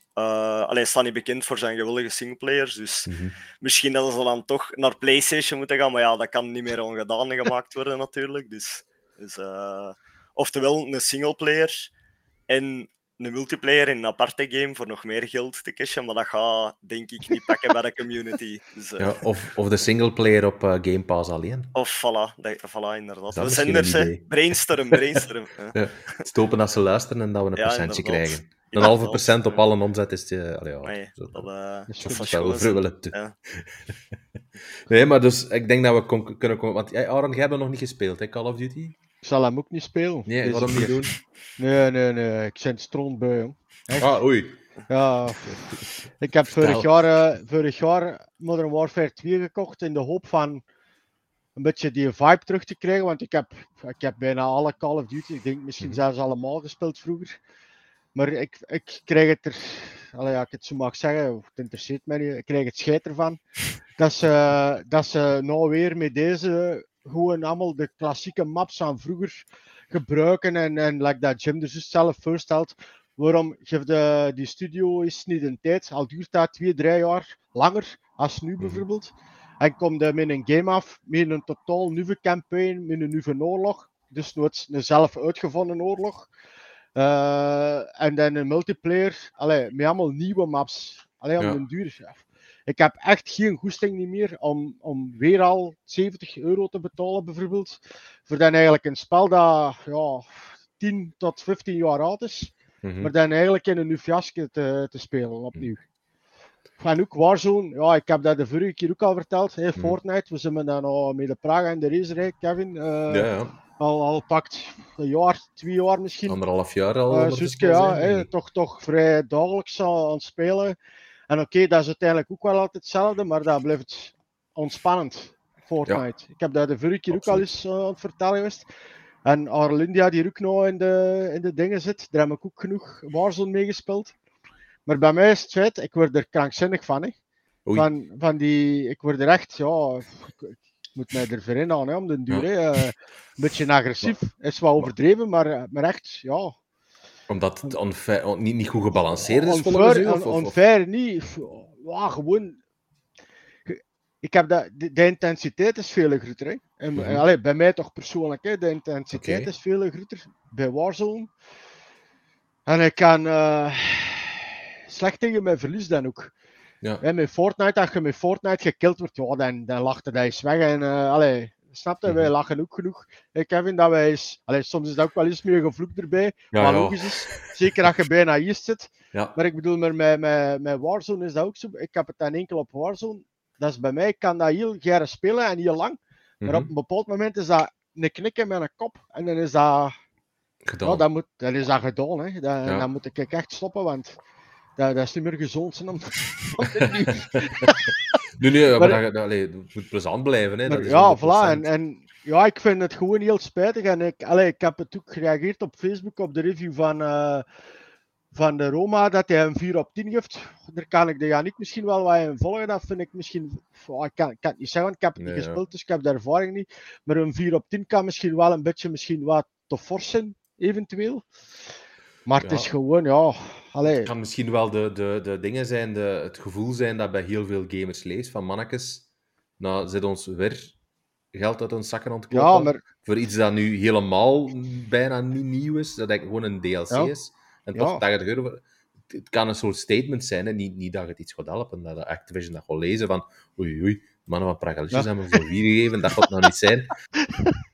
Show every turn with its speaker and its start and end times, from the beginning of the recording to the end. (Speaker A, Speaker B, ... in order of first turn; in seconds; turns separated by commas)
Speaker A: 0.2-3.1, Speaker B: 3.1-3.4, Speaker A: 3.6-11.9, Speaker A: 12.5-19.2, Speaker B: 19.0-21.7, Speaker A: 21.7-26.2, Speaker B: 23.3-24.4, Speaker B: 25.7-31.5, Speaker A: 27.6-29.6, Speaker A: 30.8-33.4, Speaker C: 31.9-32.2, Speaker B: 32.0-34.0, Speaker B: 34.9-39.0, Speaker C: 39.2-41.0, Speaker B: 40.3-41.2, Speaker C: 41.6-44.1, Speaker B: 43.9-44.6, Speaker C: 44.9-50.6, Speaker B: 46.5-46.9, Speaker C: 51.6-57.4, Speaker C: 58.1-63.4, Speaker C: 64.0-86.3, Speaker B: 78.6-78.8, Speaker C: 87.0-105.8, Speaker B: 102.8-103.1, Speaker C: 106.8-116.4, Speaker B: 113.1-113.6, Speaker B: 116.3-118.3, Speaker C: 117.1-120.8, Speaker C: 121.3-128.7, Speaker B: 127.1-127.5, Speaker C: 129.2-134.1, Speaker C: 134.9-137.2, Speaker C: 137.8-146.6, Speaker B: 147.3-150.6, Speaker C: 149.2-152.6, Speaker C: 153.7-161.3, Speaker B: 157.0-157.2, Speaker B: 159.1-159.5, Speaker C: 162.7-166.3, Speaker C: 167.0-189.9, Speaker B: 172.1-172.3, Speaker B: 176.5-177.6, Speaker B: 186.4-186.7, Speaker B: 190.7-191.1, Speaker C: 190.8-194.2, Speaker C: 194.8-197.8, Speaker B: 196.8-197.8, Speaker B: 198.4-201.7, Speaker C: 200.7-207.4, Speaker C: 208.3-221.3, Speaker B: 215.2-215.6, Speaker C: 222.3-224.1, Speaker B: 222.4-222.7, Speaker B: 223.9-229.1, Speaker B: 229.6-230.8, Speaker B: 231.3-246.9, Speaker C: 232.3-232.8, Speaker C: 237.8-238.0